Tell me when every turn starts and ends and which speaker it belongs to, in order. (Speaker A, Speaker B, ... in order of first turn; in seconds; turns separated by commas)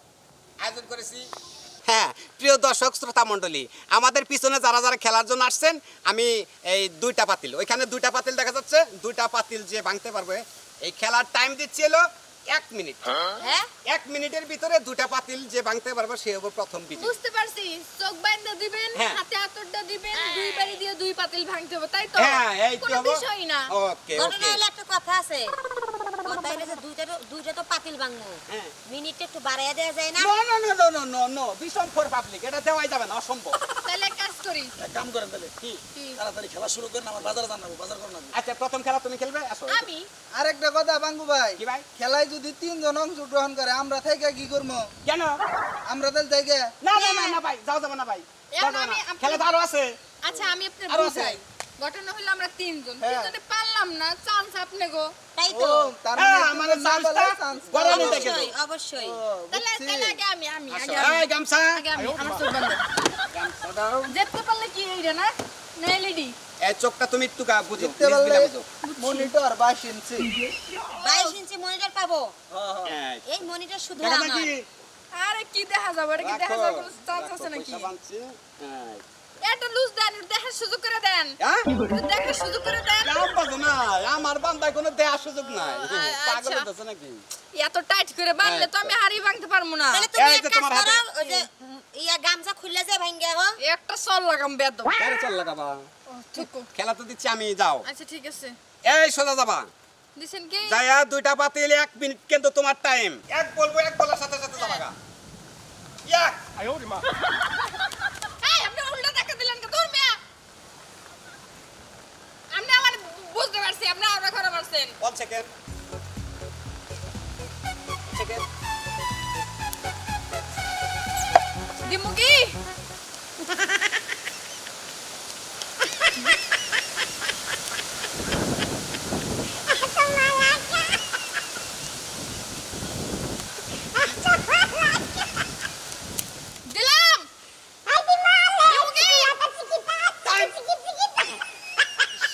Speaker A: 0.6-1.2, Speaker A: 1.9-13.2, Speaker B: 13.4-13.7, Speaker A: 13.8-17.1, Speaker C: 17.0-23.7, Speaker A: 18.9-19.2, Speaker B: 20.2-20.8, Speaker A: 22.1-24.6, Speaker B: 24.1-25.6, Speaker B: 26.2-30.3, Speaker A: 28.5-28.7, Speaker A: 30.2-33.6, Speaker C: 33.8-34.7, Speaker D: 34.8-35.5, Speaker C: 35.9-36.2, Speaker D: 36.1-38.3, Speaker A: 38.3-39.9, Speaker C: 39.7-40.1, Speaker E: 40.3-44.9, Speaker A: 41.6-41.9, Speaker A: 45.0-45.4, Speaker E: 45.9-46.7, Speaker A: 46.8-49.9, Speaker C: 48.5-49.5, Speaker C: 50.2-55.1, Speaker A: 50.9-51.4, Speaker E: 53.0-53.3, Speaker B: 55.3-55.9, Speaker E: 55.5-58.4, Speaker A: 56.1-58.5, Speaker B: 57.9-59.2, Speaker E: 59.0-60.2, Speaker C: 59.5-62.9, Speaker A: 60.7-61.8, Speaker A: 63.3-64.1, Speaker C: 64.1-66.3, Speaker A: 66.6-68.6, Speaker E: 67.7-70.3, Speaker C: 68.8-69.3, Speaker C: 70.5-71.3, Speaker B: 70.9-72.3, Speaker E: 72.5-72.9, Speaker A: 72.8-73.4, Speaker B: 73.2-74.5, Speaker A: 74.0-74.7, Speaker C: 75.1-77.9, Speaker A: 76.2-79.0, Speaker C: 79.4-83.2, Speaker A: 81.4-81.7, Speaker A: 83.0-87.2, Speaker C: 85.5-86.7, Speaker C: 87.5-90.1, Speaker A: 88.4-89.0, Speaker B: 89.9-93.6, Speaker A: 90.2-91.4, Speaker C: 93.6-94.9, Speaker A: 95.0-97.8, Speaker C: 96.1-96.7, Speaker C: 97.8-98.5, Speaker A: 98.8-99.7, Speaker C: 100.2-100.8, Speaker A: 100.6-104.9, Speaker C: 104.5-104.8, Speaker A: 106.0-106.4, Speaker C: 108.4-110.2, Speaker C: 112.5-115.0, Speaker A: 115.0-115.5, Speaker A: 118.1-118.4, Speaker C: 121.8-122.6, Speaker B: 129.8-130.7, Speaker C: 136.7-137.3, Speaker B: 137.9-141.3, Speaker C: 138.6-139.4, Speaker A: 140.2-140.6